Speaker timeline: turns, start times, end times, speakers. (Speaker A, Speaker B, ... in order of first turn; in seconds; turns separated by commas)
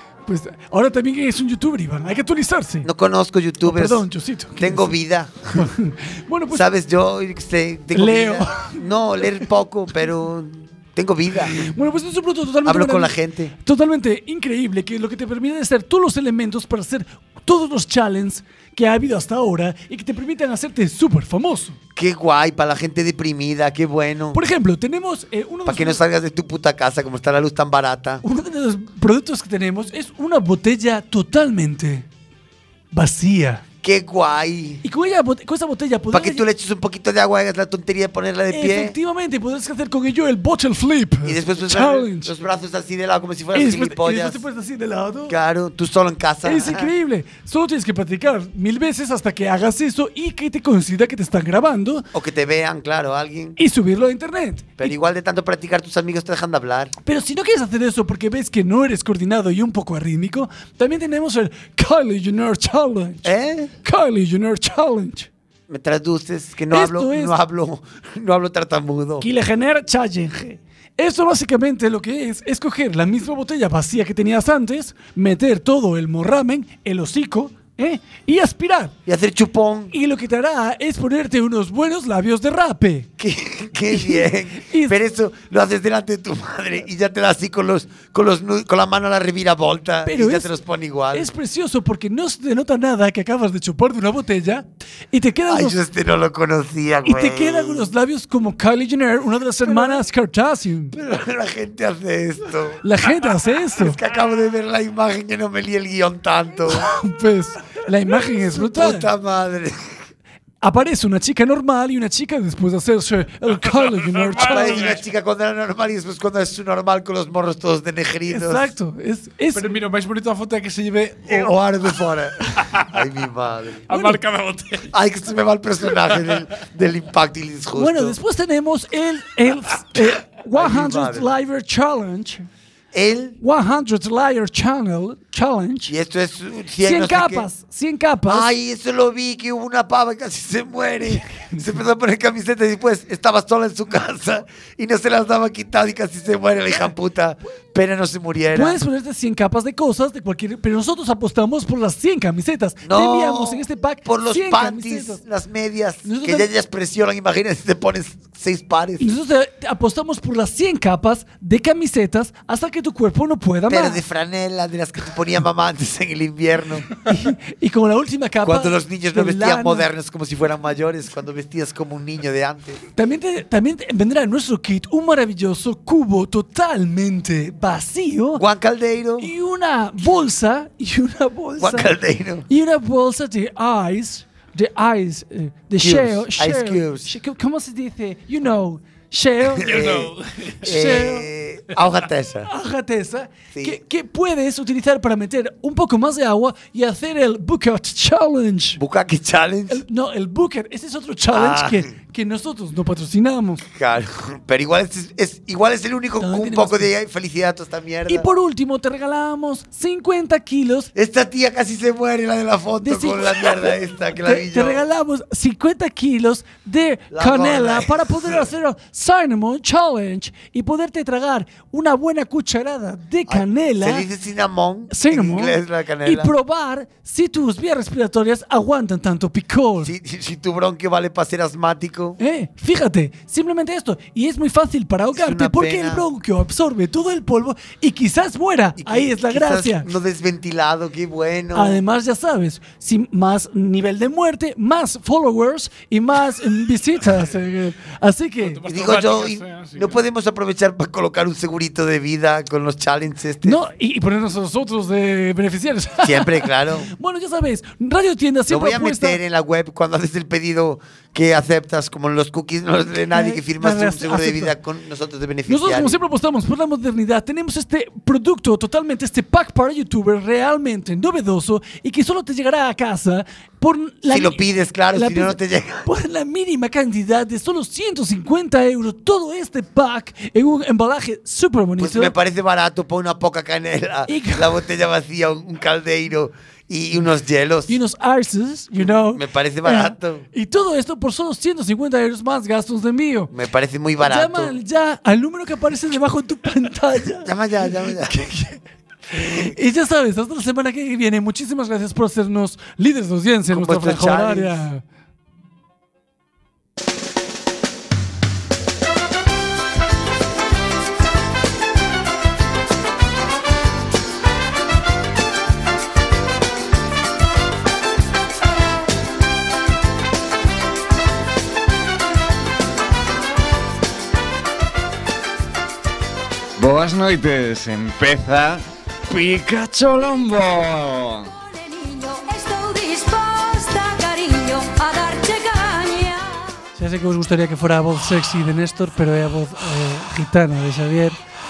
Speaker A: 0.3-2.9, Speaker B: 2.8-5.7, Speaker A: 3.6-4.9, Speaker A: 5.6-6.6, Speaker B: 6.5-11.6, Speaker A: 7.9-9.3, Speaker A: 11.5-21.8, Speaker B: 12.7-13.5, Speaker B: 22.0-24.4, Speaker A: 24.3-26.0, Speaker B: 25.7-28.2, Speaker A: 28.2-32.1, Speaker A: 32.9-33.6, Speaker B: 33.8-34.8, Speaker A: 34.8-36.5, Speaker B: 36.1-39.0, Speaker A: 38.5-42.3, Speaker B: 41.2-44.4, Speaker A: 43.5-45.4, Speaker B: 45.3-46.9, Speaker A: 46.5-52.1, Speaker B: 52.1-53.6, Speaker A: 53.6-55.0, Speaker B: 54.8-56.9, Speaker A: 57.0-63.3, Speaker B: 63.2-63.7, Speaker A: 63.8-65.3, Speaker B: 65.7-69.3, Speaker A: 66.7-67.4, Speaker A: 69.2-78.9, Speaker B: 79.1-79.9, Speaker A: 79.9-83.1, Speaker B: 83.2-91.3, Speaker A: 83.9-85.0, Speaker A: 90.0-90.5, Speaker A: 91.1-95.8, Speaker B: 95.5-97.9, Speaker A: 97.0-100.9, Speaker B: 99.7-100.0, Speaker B: 100.9-102.8, Speaker A: 102.8-104.0, Speaker B: 103.8-106.9, Speaker A: 106.7-109.1, Speaker B: 108.2-110.0, Speaker A: 110.6-114.9, Speaker C: 113.6-115.0, Speaker B: 114.4-118.7, Speaker A: 118.3-119.7, Speaker C: 119.5-121.5, Speaker B: 121.2-123.8, Speaker C: 122.6-122.9, Speaker C: 123.9-124.9, Speaker A: 123.9-124.2, Speaker B: 124.9-128.2, Speaker A: 127.8-132.5, Speaker B: 130.5-131.3, Speaker B: 132.9-133.4, Speaker A: 133.4-135.9, Speaker B: 135.9-137.5, Speaker A: 136.8-138.5, Speaker B: 138.3-148.8, Speaker A: 148.5-155.2, Speaker B: 152.8-159.2, Speaker A: 156.1-156.5, Speaker A: 159.0-164.0, Speaker B: 163.7-166.9, Speaker A: 167.1-169.9, Speaker B: 168.4-172.8, Speaker A: 172.9-178.4, Speaker B: 178.3-179.3, Speaker A: 179.2-181.9, Speaker B: 181.6-182.5, Speaker A: 182.5-189.8, Speaker B: 185.8-187.2, Speaker B: 189.6-192.5, Speaker C: 189.7-190.7, Speaker A: 190.6-191.3, Speaker A: 192.5-198.8, Speaker B: 193.5-193.8, Speaker B: 198.8-199.8, Speaker A: 199.7-203.6, Speaker B: 201.3-201.9, Speaker B: 203.7-208.3, Speaker A: 206.2-206.9, Speaker A: 208.1-210.9, Speaker B: 210.9-214.8, Speaker A: 212.8-224.1, Speaker B: 217.1-218.5, Speaker B: 223.3-226.3, Speaker A: 224.9-229.9, Speaker B: 229.8-232.2, Speaker A: 232.2-239.9, Speaker B: 235.1-236.1, Speaker B: 238.8-241.8, Speaker A: 241.5-248.6, Speaker C: 248.4-250.0, Speaker B: 248.7-253.6, Speaker A: 253.4-259.2, Speaker B: 256.0-256.9, Speaker B: 258.5-266.0, Speaker A: 263.1-264.6, Speaker A: 265.5-282.1, Speaker B: 274.1-275.9, Speaker B: 281.8-287.8, Speaker A: 284.1-284.5, Speaker A: 287.7-293.3, Speaker B: 288.8-290.3, Speaker B: 293.3-294.5, Speaker A: 294.0-297.3, Speaker B: 297.2-298.2, Speaker A: 298.0-298.6, Speaker B: 299.1-299.5, Speaker A: 299.2-304.8, Speaker B: 303.5-304.7, Speaker D: 326.6-331.3, Speaker E: 331.3-336.5, Speaker A: 336.8-341.2